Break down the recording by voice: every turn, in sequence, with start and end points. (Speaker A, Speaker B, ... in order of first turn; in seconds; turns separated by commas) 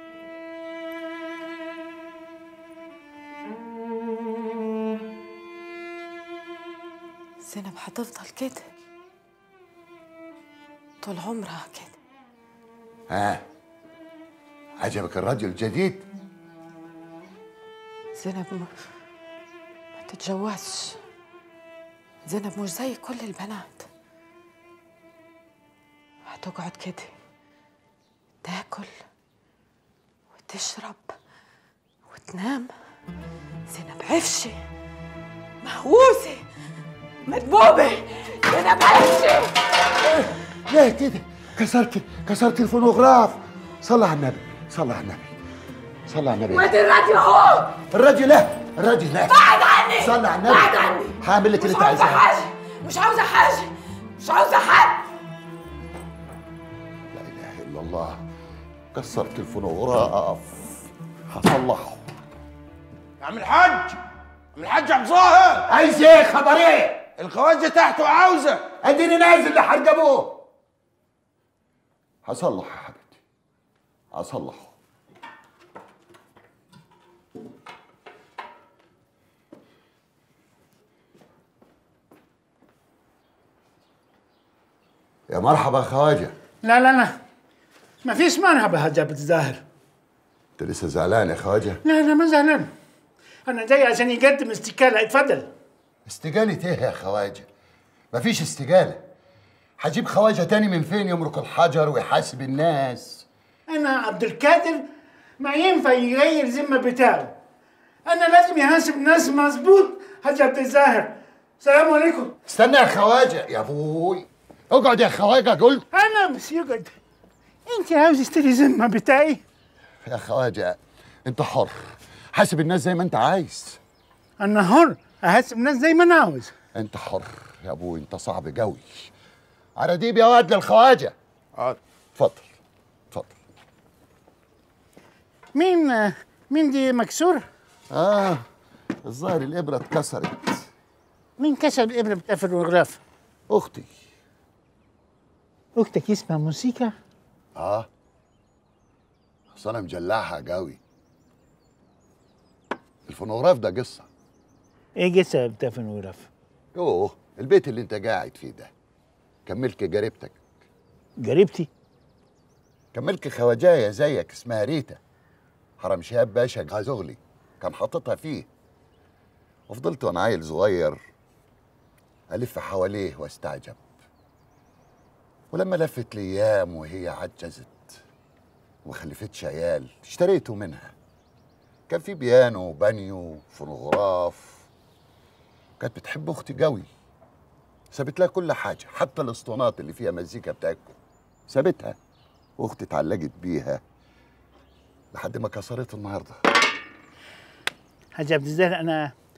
Speaker A: 7.4-8.7, Speaker A: 11.0-12.0, Speaker B: 13.1-13.4, Speaker B: 14.8-16.1, Speaker A: 18.1-18.8, Speaker A: 20.0-21.0, Speaker A: 22.2-23.9, Speaker A: 26.3-27.1, Speaker A: 28.4-28.9, Speaker A: 30.4-31.1, Speaker A: 32.1-32.7, Speaker A: 33.7-34.5, Speaker A: 35.6-36.4, Speaker A: 37.2-39.6, Speaker B: 40.0-45.4, Speaker B: 46.1-46.7, Speaker A: 46.5-47.8, Speaker B: 47.9-52.3, Speaker A: 49.3-55.0, Speaker B: 57.1-58.2, Speaker B: 58.9-62.0, Speaker C: 63.2-63.9, Speaker C: 64.5-65.6, Speaker B: 65.7-67.1, Speaker C: 67.2-68.6, Speaker B: 68.8-70.4, Speaker B: 72.2-73.2, Speaker B: 74.1-74.8, Speaker B: 85.3-86.3, Speaker D: 86.6-87.1, Speaker D: 88.0-89.6, Speaker B: 90.6-91.8, Speaker D: 91.8-92.7, Speaker D: 93.5-95.5, Speaker B: 96.0-97.5, Speaker B: 98.1-99.0, Speaker B: 99.8-103.3, Speaker D: 103.7-104.9, Speaker D: 105.4-107.3, Speaker D: 108.0-112.3, Speaker B: 112.5-115.9, Speaker D: 115.9-116.9, Speaker D: 117.7-119.4, Speaker B: 120.0-123.8, Speaker D: 124.4-126.5, Speaker B: 126.7-129.1, Speaker B: 129.8-131.1, Speaker B: 132.1-132.5, Speaker B: 133.1-133.3, Speaker D: 135.5-137.4, Speaker B: 137.9-138.4, Speaker B: 139.0-140.7, Speaker D: 141.4-143.0, Speaker B: 143.5-143.9, Speaker D: 145.8-146.9, Speaker B: 147.6-147.9, Speaker B: 149.5-150.8, Speaker B: 153.1-154.1, Speaker D: 155.0-156.3, Speaker B: 156.7-158.7, Speaker B: 159.4-160.4, Speaker D: 161.2-161.7, Speaker B: 162.9-165.0, Speaker B: 165.8-168.5, Speaker B: 169.7-171.0, Speaker B: 172.3-173.8, Speaker B: 175.5-178.0, Speaker B: 178.8-180.9, Speaker B: 181.9-184.7, Speaker B: 185.8-186.9, Speaker B: 187.9-190.9, Speaker B: 191.5-192.0, Speaker B: 192.6-193.8, Speaker B: 195.1-196.4, Speaker D: 198.2-199.1